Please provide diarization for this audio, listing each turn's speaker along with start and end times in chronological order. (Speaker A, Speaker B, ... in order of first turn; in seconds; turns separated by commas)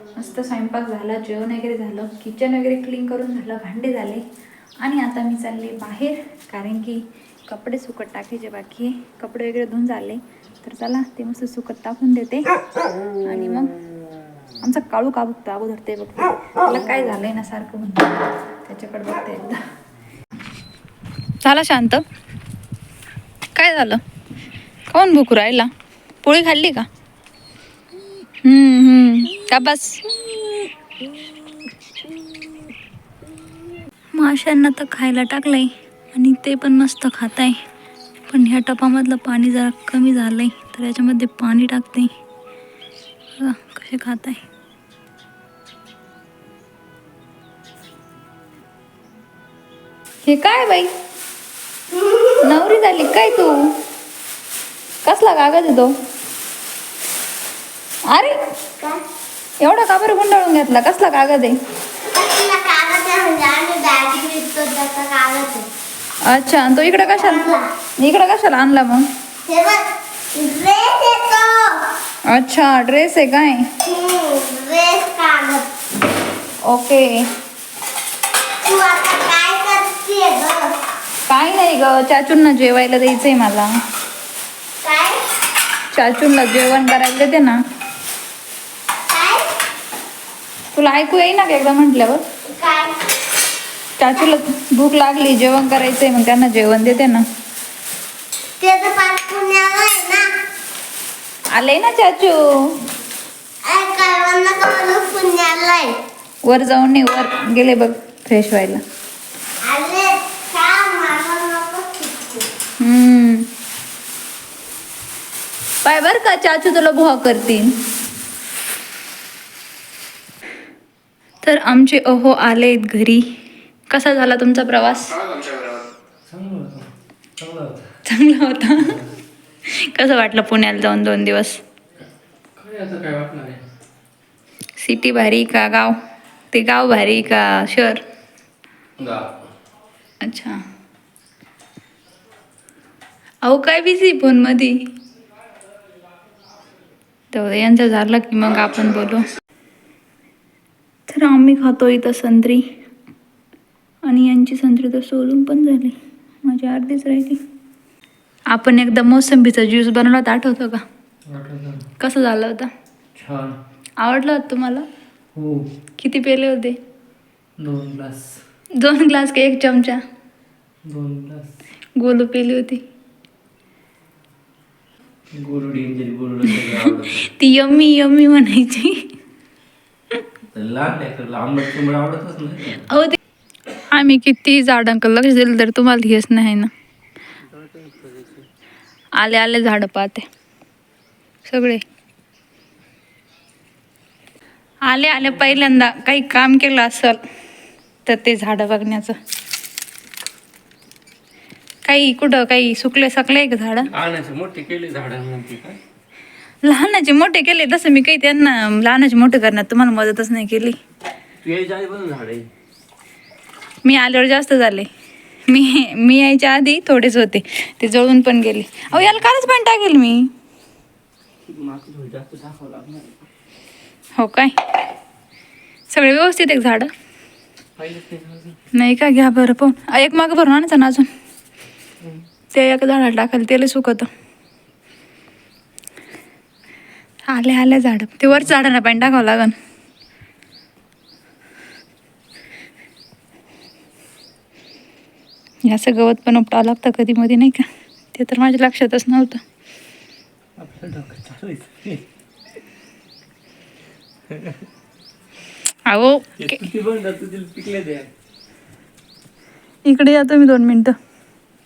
Speaker A: 0.1-4.2, Speaker A: 4.8-12.5, Speaker A: 13.2-13.7, Speaker A: 14.6-19.6, Speaker A: 21.4-22.0, Speaker A: 23.6-24.0, Speaker A: 24.9-25.7, Speaker A: 26.2-26.9, Speaker A: 28.4-30.0, Speaker A: 34.1-37.6, Speaker A: 38.3-42.1, Speaker A: 43.4-44.5, Speaker A: 50.2-50.9, Speaker B: 51.9-52.4, Speaker A: 52.4-53.7, Speaker A: 55.0-55.9, Speaker A: 59.6-61.6, Speaker B: 62.0-65.7, Speaker A: 66.3-69.1, Speaker B: 67.2-67.7, Speaker B: 69.4-71.8, Speaker A: 72.3-73.6, Speaker B: 73.8-75.7, Speaker A: 76.7-77.2, Speaker B: 78.6-80.8, Speaker A: 81.3-83.7, Speaker B: 84.8-85.2, Speaker A: 85.9-87.6, Speaker B: 89.1-89.5, Speaker A: 90.7-92.2, Speaker B: 92.5-93.0, Speaker A: 94.0-97.3, Speaker B: 98.6-100.3, Speaker A: 101.5-102.8, Speaker B: 103.7-106.0, Speaker A: 106.5-108.8, Speaker B: 109.6-112.5, Speaker A: 112.8-113.5, Speaker A: 115.8-117.8, Speaker A: 121.4-123.3, Speaker A: 123.9-125.3, Speaker C: 126.3-127.9, Speaker A: 128.1-129.0, Speaker C: 128.8-129.1, Speaker A: 129.7-131.6, Speaker C: 132.6-133.6, Speaker A: 134.8-135.9, Speaker A: 136.5-138.0, Speaker C: 139.0-139.4, Speaker A: 140.2-140.6, Speaker A: 143.4-144.8, Speaker A: 147.3-149.3, Speaker A: 151.1-152.7, Speaker A: 154.1-157.4, Speaker A: 158.5-160.8, Speaker C: 161.3-161.8, Speaker A: 162.0-162.7, Speaker C: 163.2-163.6, Speaker A: 164.0-164.9, Speaker C: 165.4-165.7, Speaker A: 166.0-166.8, Speaker C: 167.6-168.4, Speaker A: 168.8-170.0, Speaker C: 170.8-171.5, Speaker A: 172.0-172.8, Speaker C: 175.3-177.3, Speaker A: 176.5-179.0, Speaker C: 180.5-182.9, Speaker A: 182.9-183.2, Speaker A: 183.8-186.7, Speaker C: 187.5-188.5, Speaker A: 189.2-190.2, Speaker A: 191.4-191.8, Speaker A: 194.8-197.2, Speaker C: 195.2-195.7, Speaker A: 198.1-199.2, Speaker A: 201.8-203.9, Speaker C: 203.9-205.8, Speaker A: 206.6-210.8, Speaker C: 211.4-212.5, Speaker A: 213.8-214.9, Speaker A: 215.5-220.3, Speaker C: 218.9-219.2, Speaker C: 221.5-223.3, Speaker A: 224.2-224.6, Speaker A: 225.9-226.9, Speaker C: 227.8-228.6, Speaker A: 228.7-231.1, Speaker A: 232.5-234.1, Speaker A: 237.3-239.6, Speaker A: 245.7-249.4, Speaker C: 250.6-252.1, Speaker C: 254.3-254.6, Speaker A: 255.9-256.3, Speaker C: 256.4-258.1, Speaker A: 259.9-260.9